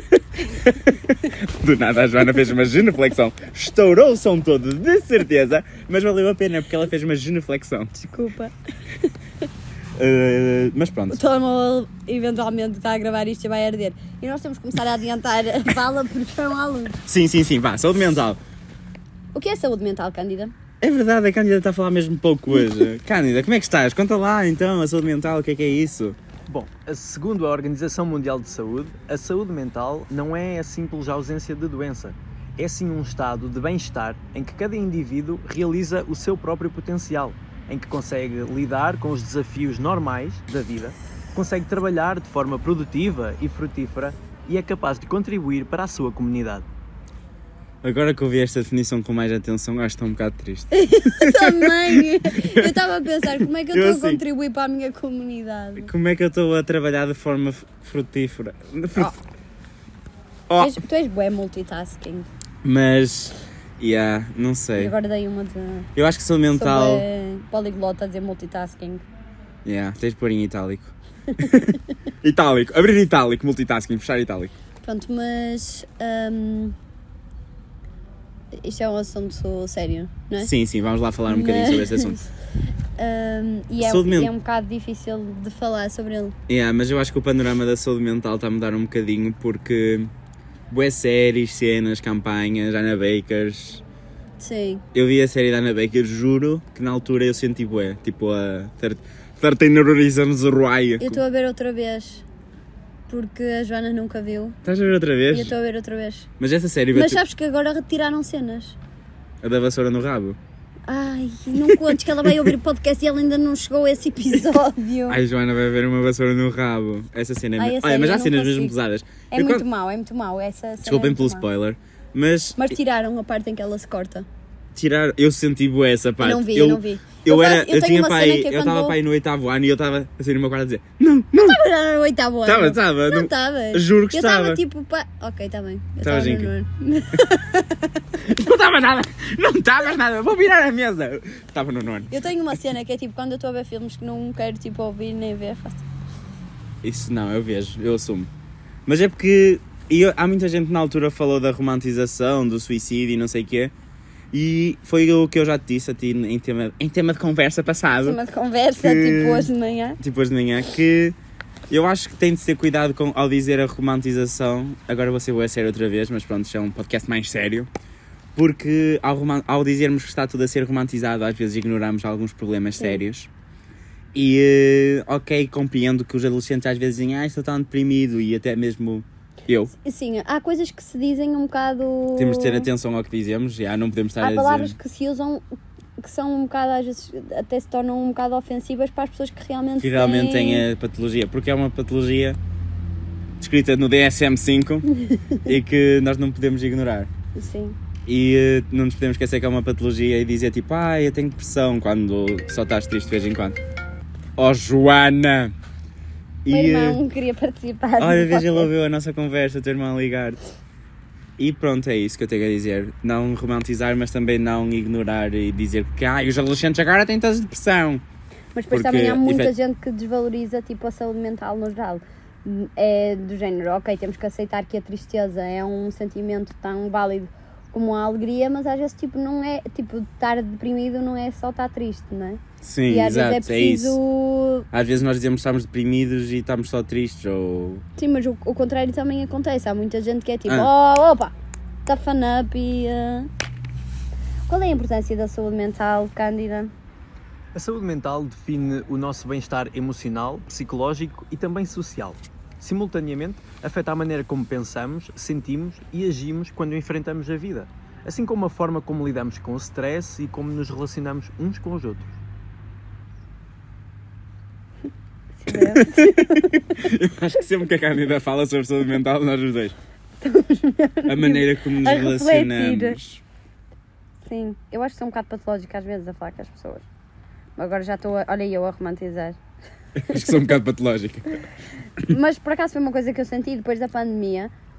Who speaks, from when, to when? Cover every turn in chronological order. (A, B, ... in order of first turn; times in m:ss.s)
0:00.4-0:07.9 A
0:07.9-0:08.5 B
0:10.0-0:11.2 A
0:11.1-0:17.0 B
0:17.0-0:18.4 A
0:19.3-0:20.5 B
0:20.8-0:26.2 A
0:26.5-0:46.6 C
0:47.8-0:52.7 A
0:50.7-0:55.9 B
0:53.7-0:54.2 A
0:55.8-0:59.1 A
1:00.5-1:00.8 A
1:00.6-1:02.3 B
1:02.6-1:04.9 A
1:04.8-1:05.9 B
1:06.0-1:07.0 A
1:06.5-1:09.0 B
1:09.6-1:14.5 A
1:14.8-1:16.7 B
1:18.5-1:20.5 B
1:20.4-1:22.2 A
1:21.3-1:22.3 B
1:23.0-1:26.4 B
1:23.8-1:24.3 A
1:26.5-1:30.1 A
1:30.7-1:33.8 A
1:34.4-1:34.8 B
1:34.9-1:41.2 A
1:41.0-1:42.2 B
1:43.1-1:44.6 B
1:44.6-1:45.5 A
1:45.3-1:46.3 B
1:46.4-1:47.2 A
1:46.9-1:48.8 B
1:49.4-1:50.4 A
1:50.9-1:55.2 B
1:51.8-1:52.5 A
1:55.1-1:59.6 A
1:57.6-1:58.8 B
1:59.3-2:01.4 B
2:00.8-2:02.7 A
2:02.6-2:04.2 B
2:04.7-2:11.6 A
2:06.2-2:09.0 B
2:11.3-2:17.9 B
2:12.4-2:14.6 A
2:16.0-2:16.5 A
2:18.2-2:22.1 A
2:22.1-2:25.8 B
2:26.8-2:28.3 A
2:28.8-2:33.7 A
2:34.3-2:38.2 A
2:38.0-2:40.0 B
2:38.8-2:41.2 A
2:41.7-2:47.7 A
2:48.3-2:53.3 A
2:52.8-2:53.0 B
2:54.1-2:59.7 A
2:59.7-3:02.7 B
3:02.2-3:04.8 A
3:04.2-3:05.4 B
3:06.0-3:10.6 B
3:09.8-3:12.4 A
3:13.4-3:14.9 A
3:15.4-3:17.1 A
3:17.3-3:17.8 B
3:18.0-3:23.6 A
3:24.4-3:25.5 A
3:26.4-3:27.0 A
3:26.5-3:28.7 B
3:28.0-3:30.4 A
3:31.4-3:38.0 A
3:38.5-3:54.6 B
3:38.7-3:39.5 A
3:52.6-3:54.0 A
3:54.7-3:57.8 A
3:58.0-4:01.3 B
4:01.8-4:03.3 B
4:04.5-4:06.7 B
4:07.5-4:22.2 C
4:25.4-4:26.5 B
4:25.5-4:29.7 A
4:30.2-4:33.0 B
4:31.1-4:33.2 A
4:34.2-4:36.8 B
4:37.6-4:39.4 B
4:40.0-4:41.4 A
4:42.1-4:44.5 B